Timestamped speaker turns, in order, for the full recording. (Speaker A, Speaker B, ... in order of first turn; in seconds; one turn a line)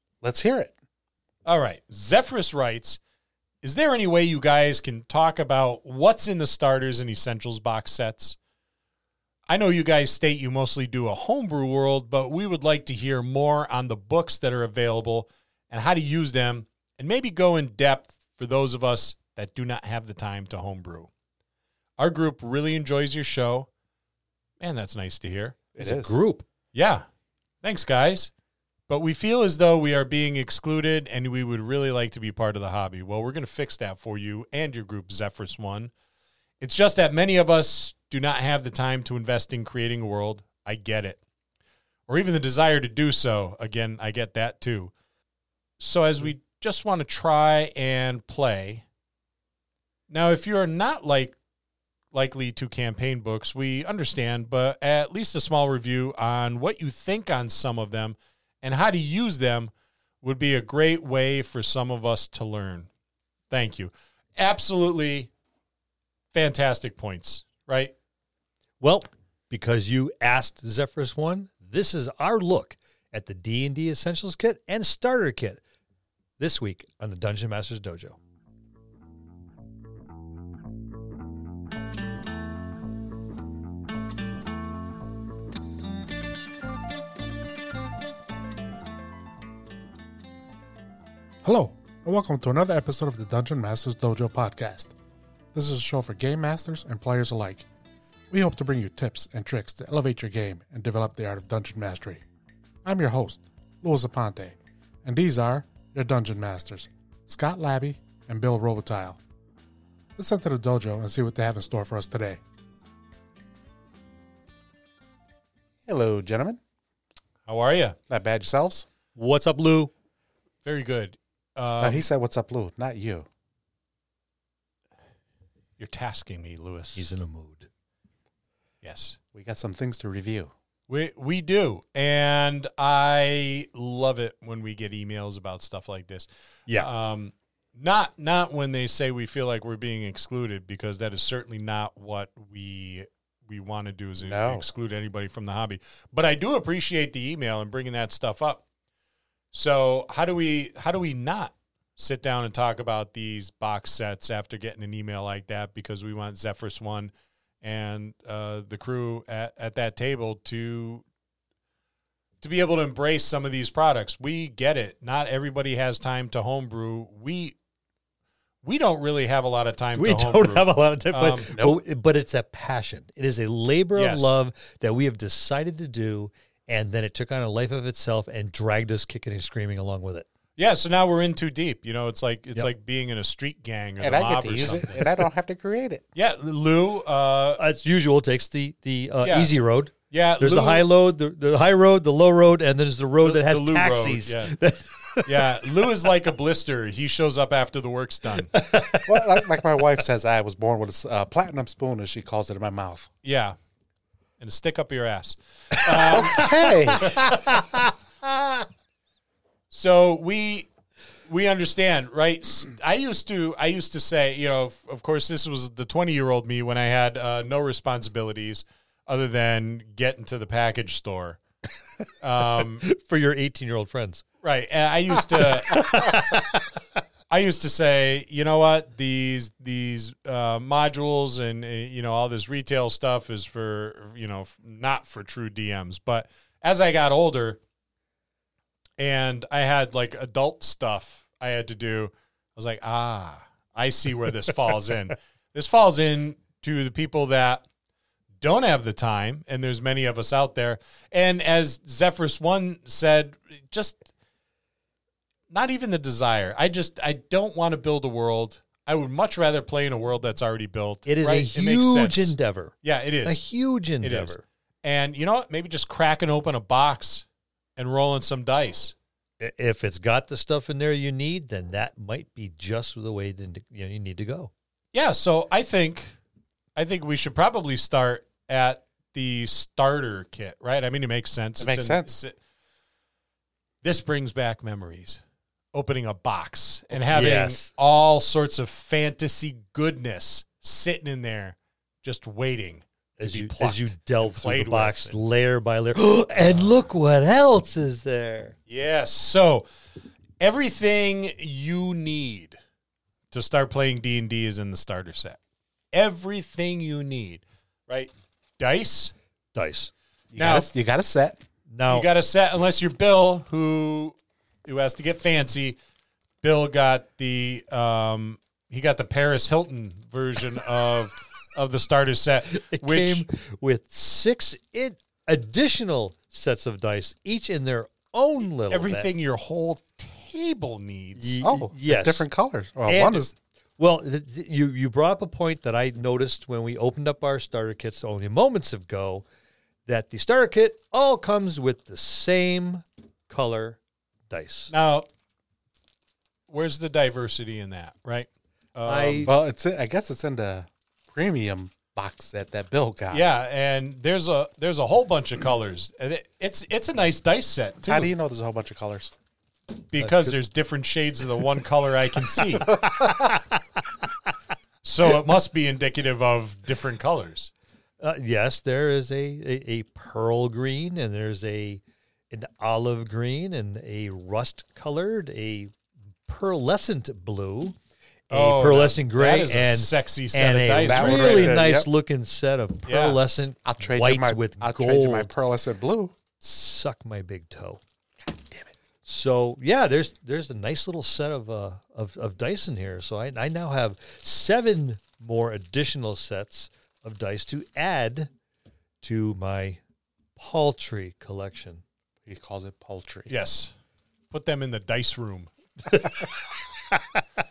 Speaker A: 0.2-0.7
Speaker B: 1.4-3.0
Speaker B: 3.6-8.4
Speaker B: 9.5-21.1
Speaker B: 22.0-23.7
Speaker B: 24.6-25.6
Speaker C: 25.8-26.4
Speaker A: 25.8-26.2
Speaker B: 26.7-27.0
Speaker B: 27.6-28.3
Speaker B: 28.9-35.9
Speaker B: 36.6-41.2
Speaker B: 42.1-44.9
Speaker B: 45.8-48.8
Speaker B: 50.1-51.4
Speaker B: 52.1-62.9
Speaker B: 63.5-65.3
Speaker B: 66.3-67.9
Speaker C: 68.8-75.6
Speaker C: 76.4-78.2
Speaker A: 91.4-94.9
Speaker A: 95.5-97.7
Speaker A: 98.3-102.2
Speaker A: 102.8-109.2
Speaker A: 110.2-112.4
Speaker A: 115.8-116.6
Speaker B: 117.5-118.0
Speaker A: 118.1-118.8
Speaker C: 119.1-119.9
Speaker B: 120.6-122.1
Speaker A: 121.8-123.3
Speaker B: 125.8-127.1
Speaker C: 127.0-127.7
Speaker B: 128.8-129.2
Speaker A: 129.3-130.5
Speaker B: 130.9-148.6
Speaker A: 144.2-144.6
Speaker B: 149.5-161.0
Speaker B: 162.4-167.6
Speaker B: 168.6-171.5
Speaker C: 169.9-180.2
Speaker A: 171.5-171.8
Speaker B: 173.9-174.3
Speaker B: 180.6-185.1
Speaker A: 184.0-186.0
Speaker B: 186.1-187.6
Speaker C: 187.6-195.7
Speaker B: 189.2-189.5
Speaker B: 190.1-190.9
Speaker B: 193.2-194.5
Speaker B: 195.2-198.5
Speaker C: 198.5-199.8
Speaker A: 199.0-203.1
Speaker B: 203.2-203.6
Speaker B: 204.4-207.3
Speaker A: 205.9-207.1
Speaker C: 206.4-207.9
Speaker B: 209.7-210.7
Speaker B: 211.2-221.4
Speaker B: 222.2-222.8
Speaker C: 222.5-224.2
Speaker B: 224.4-226.1
Speaker C: 225.3-226.8
Speaker B: 227.3-237.6
Speaker B: 239.0-247.6
Speaker B: 248.4-254.1
Speaker B: 255.5-263.4
Speaker C: 261.1-264.4
Speaker B: 264.0-268.9
Speaker C: 269.4-274.5
Speaker B: 274.9-276.1
Speaker B: 276.8-282.4
Speaker A: 281.6-282.1
Speaker B: 283.8-285.2
Speaker B: 285.7-295.2
Speaker C: 286.9-287.7
Speaker C: 293.2-298.6
Speaker B: 296.4-296.7
Speaker B: 298.7-299.7
Speaker B: 300.4-302.6
Speaker B: 303.3-305.4
Speaker B: 305.9-309.1
Speaker C: 309.5-309.9
Speaker A: 310.3-311.4
Speaker B: 310.4-310.7
Speaker C: 311.7-312.1
Speaker B: 311.9-315.8
Speaker B: 316.4-323.2
Speaker C: 322.5-329.1
Speaker B: 328.7-331.4
Speaker C: 331.2-332.2
Speaker A: 331.4-333.3
Speaker C: 332.9-333.2
Speaker C: 333.8-339.2
Speaker C: 339.9-343.8
Speaker C: 344.3-344.7
Speaker B: 344.7-345.1
Speaker B: 346.5-349.3
Speaker C: 348.9-349.3
Speaker A: 349.2-353.2
Speaker B: 353.1-358.1
Speaker A: 357.9-359.1
Speaker B: 359.9-362.8
Speaker C: 360.0-360.3
Speaker C: 362.6-363.4
Speaker B: 364.8-367.5
Speaker C: 368.0-375.7
Speaker C: 376.2-377.8
Speaker B: 378.3-381.6
Speaker C: 378.3-385.3
Speaker A: 380.8-381.9
Speaker B: 382.9-383.2
Speaker A: 383.6-386.1
Speaker C: 386.4-387.8
Speaker C: 389.1-398.3
Speaker C: 399.0-399.8
Speaker C: 400.4-401.8
Speaker A: 402.2-403.3
Speaker B: 403.3-403.7
Speaker B: 404.3-405.5
Speaker C: 405.9-406.3
Speaker C: 406.8-407.2